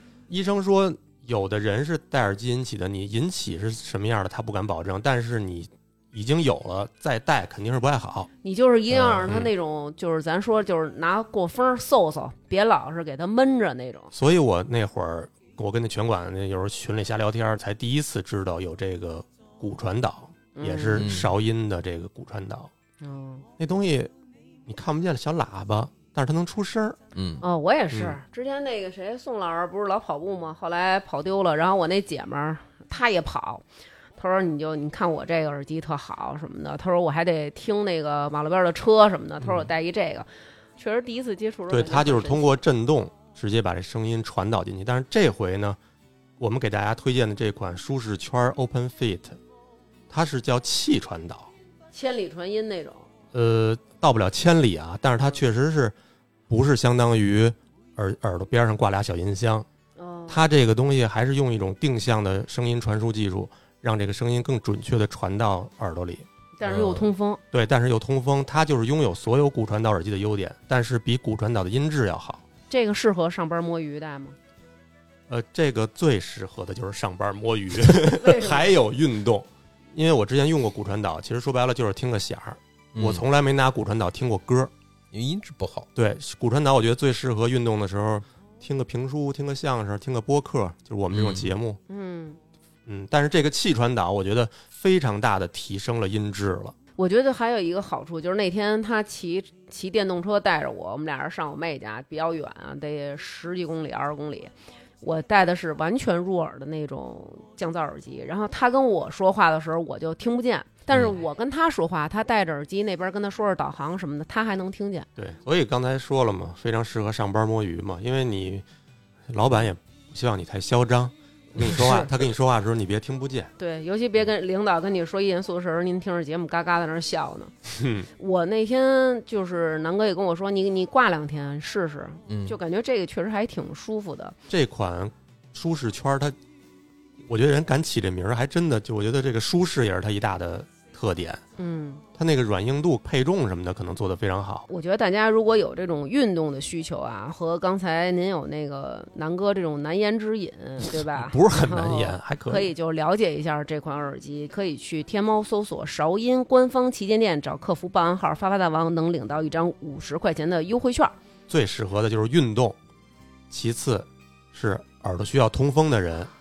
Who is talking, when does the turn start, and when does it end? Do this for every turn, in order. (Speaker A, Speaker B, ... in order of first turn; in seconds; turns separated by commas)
Speaker A: 0.3-8.3, Speaker B: 8.4-14.1, Speaker C: 8.9-9.4, Speaker A: 14.1-22.7, Speaker B: 20.6-21.1, Speaker C: 21.0-21.3, Speaker B: 23.0-23.5, Speaker A: 23.6-24.1, Speaker A: 24.7-27.0, Speaker C: 27.1-27.4, Speaker B: 27.4-33.6, Speaker A: 27.9-28.2, Speaker B: 34.2-42.6, Speaker A: 39.4-39.7, Speaker A: 41.7-45.8, Speaker A: 46.4-49.4, Speaker A: 50.1-51.5, Speaker B: 51.9-53.1, Speaker A: 53.3-56.0, Speaker A: 56.5-59.7, Speaker B: 60.0-60.4, Speaker A: 60.3-72.4, Speaker B: 66.6-67.4, Speaker B: 72.7-74.4, Speaker A: 75.3-84.7, Speaker B: 78.1-78.7, Speaker C: 83.0-83.2, Speaker C: 85.1-85.9, Speaker A: 86.0-91.8, Speaker C: 91.1-91.5, Speaker B: 91.9-92.4, Speaker A: 92.9-96.8, Speaker B: 97.0-115.1, Speaker A: 115.2-118.7, Speaker A: 119.3-123.5, Speaker B: 121.5-122.1, Speaker B: 123.6-127.5, Speaker A: 127.7-128.1, Speaker B: 128.2-134.3, Speaker C: 132.3-132.6, Speaker A: 134.5-136.4, Speaker A: 137.3-141.4, Speaker B: 141.6-142.0, Speaker A: 142.2-144.7, Speaker B: 144.7-161.2, Speaker A: 150.9-152.7, Speaker A: 161.5-162.8, Speaker A: 163.5-166.3